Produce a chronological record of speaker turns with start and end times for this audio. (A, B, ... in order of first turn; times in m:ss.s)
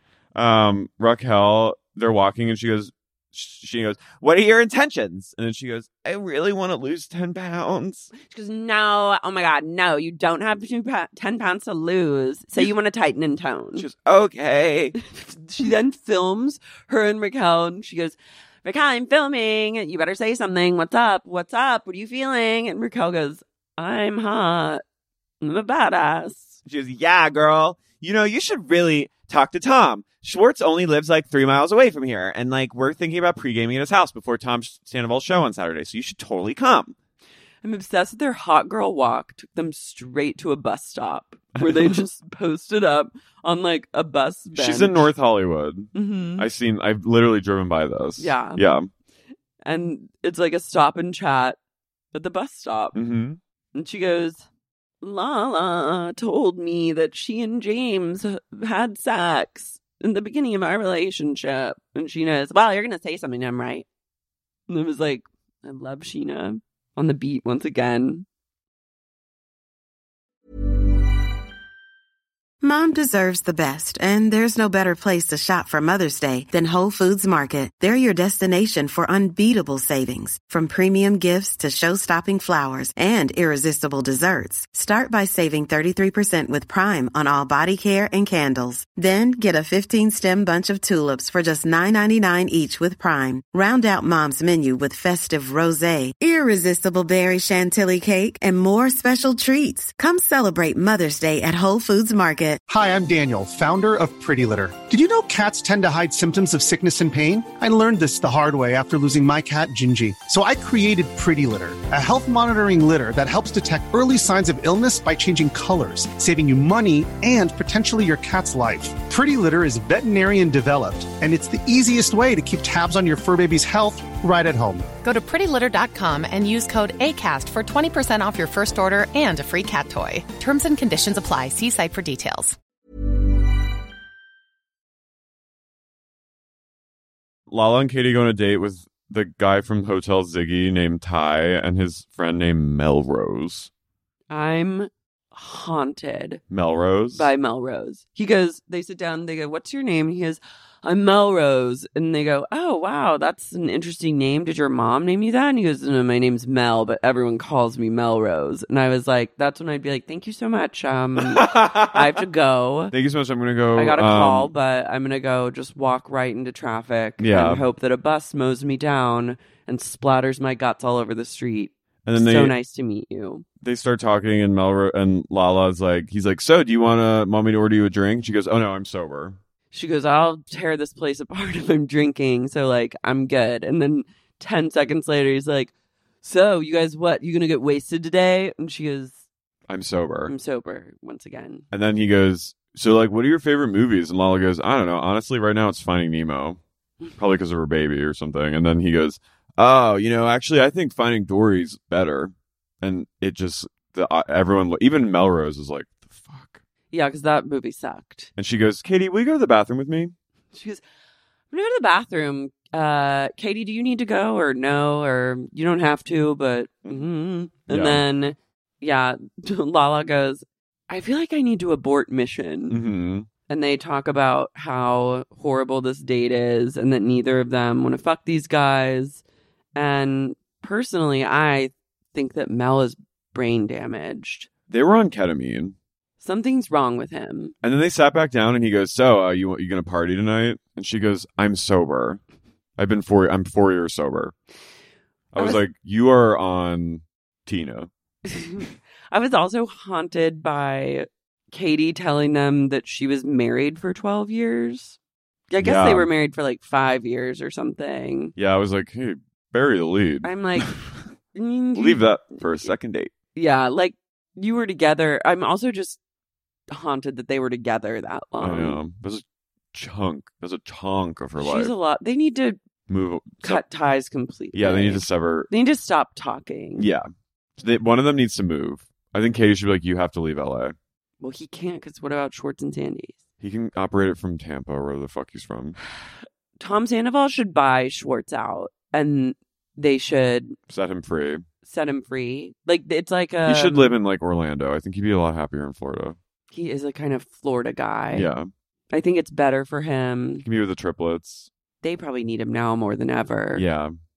0:00.4-0:08.1 A
0:08.2-0:13.9 B
0:13.8-0:15.0 A
0:15.1-0:24.8 B
0:25.4-0:26.6 B
0:26.7-0:37.0 A
0:37.6-0:45.1 B
0:41.6-0:42.0 A
0:44.5-0:48.9 A
0:46.0-0:46.5 B
0:48.2-0:48.6 B
0:49.6-0:51.6 B
0:52.1-0:53.0 B
0:52.9-0:53.4 A
0:53.8-0:54.5 B
0:55.0-1:03.9 B
1:04.7-1:08.3 B
1:12.6-1:42.6 C
1:42.7-2:05.0 D
2:05.0-2:12.6 E
2:17.5-2:23.7 A
2:24.3-2:26.4 B
2:26.5-2:27.3 A
2:27.1-2:42.9 B
2:41.2-2:42.0 A
2:42.9-2:44.5 A
2:43.7-2:53.4 B
2:47.2-2:47.6 A
2:52.1-2:52.6 A
2:53.6-2:59.4 A
2:59.7-3:09.2 B
3:09.7-3:10.3 A
3:10.3-3:11.6 B
3:11.7-3:16.6 A
3:17.2-3:26.6 A
3:26.9-3:28.3 B
3:28.4-3:30.2 A
3:30.5-3:30.8 B
3:31.5-3:42.8 B
3:37.7-3:38.0 A
3:42.7-3:43.3 A
3:43.5-3:49.2 B
3:49.8-3:54.5 B
3:54.7-3:55.8 A
3:56.2-3:57.5 B
3:57.6-4:02.2 A
4:02.8-4:04.4 A
4:05.3-4:07.9 A
4:05.4-4:05.6 B
4:08.3-4:15.0 B
4:15.5-4:18.3 B
4:15.6-4:16.1 A
4:18.4-4:21.0 A
4:20.2-4:20.7 B
4:21.3-4:22.7 B
4:21.8-4:23.1 A
4:23.4-4:26.0 B
4:26.7-4:28.8 B
4:28.4-4:31.7 A
4:31.4-4:32.6 B
4:32.9-4:33.6 A
4:33.4-4:36.9 B
4:34.5-4:35.5 A
4:36.8-4:40.8 A
4:41.2-4:43.2 B
4:43.4-4:45.8 A
4:46.6-4:50.6 B
4:50.7-4:51.4 A
4:51.6-4:54.0 B
4:53.4-4:56.2 A
4:56.5-4:58.3 B
4:58.1-4:58.5 A
4:58.9-5:00.4 B
5:00.4-5:01.5 A
5:01.8-5:03.6 B
5:03.6-5:04.0 A